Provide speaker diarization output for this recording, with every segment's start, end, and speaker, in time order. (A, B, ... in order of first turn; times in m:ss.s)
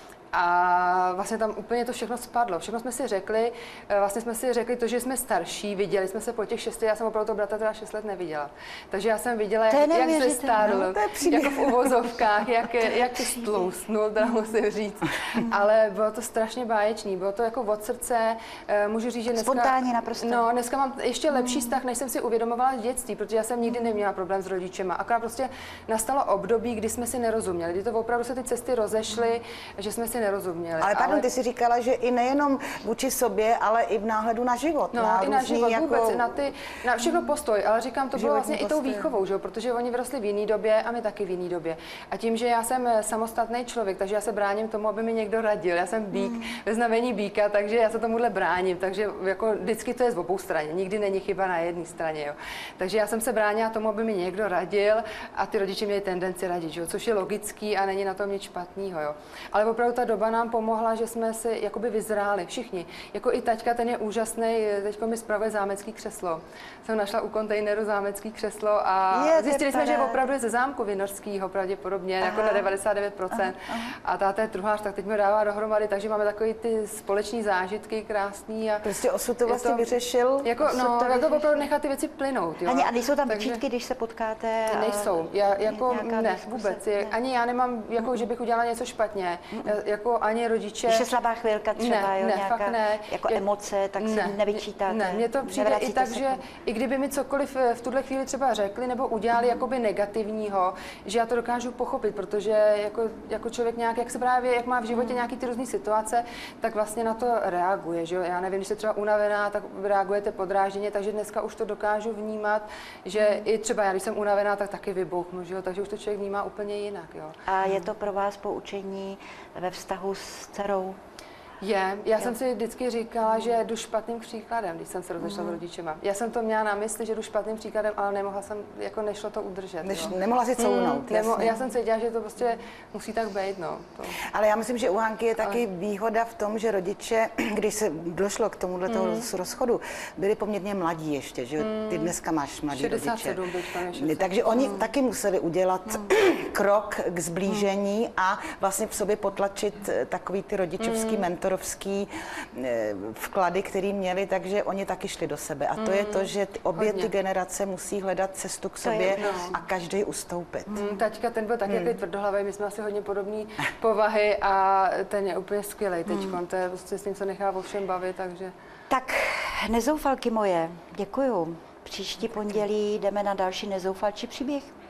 0:00.3-0:31.2 A
0:09.7-0:10.9 B
0:10.7-0:11.9 C
0:12.8-0:13.7 B
0:19.3-0:20.4 B
0:21.3-0:21.8 B
0:30.8-0:36.4 C
0:34.9-1:18.9 A
0:38.2-0:39.1 C
0:46.1-0:46.6 B
1:09.1-1:10.2 B
1:12.2-1:12.7 B
1:13.3-1:13.9 B
1:18.8-1:20.6 C
1:19.5-1:19.9 A
1:20.4-1:23.6 A
1:20.7-1:21.5 B
1:22.6-1:27.2 B
1:24.7-1:31.1 A
1:30.9-1:36.4 B
1:31.8-1:33.4 A
1:34.0-1:57.9 A
1:45.0-1:45.2 B
1:57.5-2:01.0 B
2:01.6-2:14.2 A
2:05.2-2:05.6 B
2:09.8-2:11.6 C
2:14.2-2:40.8 C
2:18.9-2:19.3 A
2:21.6-2:22.2 A
2:22.7-2:24.9 A
2:30.8-2:31.3 A
2:35.8-2:37.1 A
2:38.8-2:39.3 B
2:39.2-2:39.6 A
2:40.7-2:41.0 B
2:40.8-2:48.5 A
2:41.7-2:41.9 C
2:46.1-2:46.4 B
2:48.9-2:54.7 B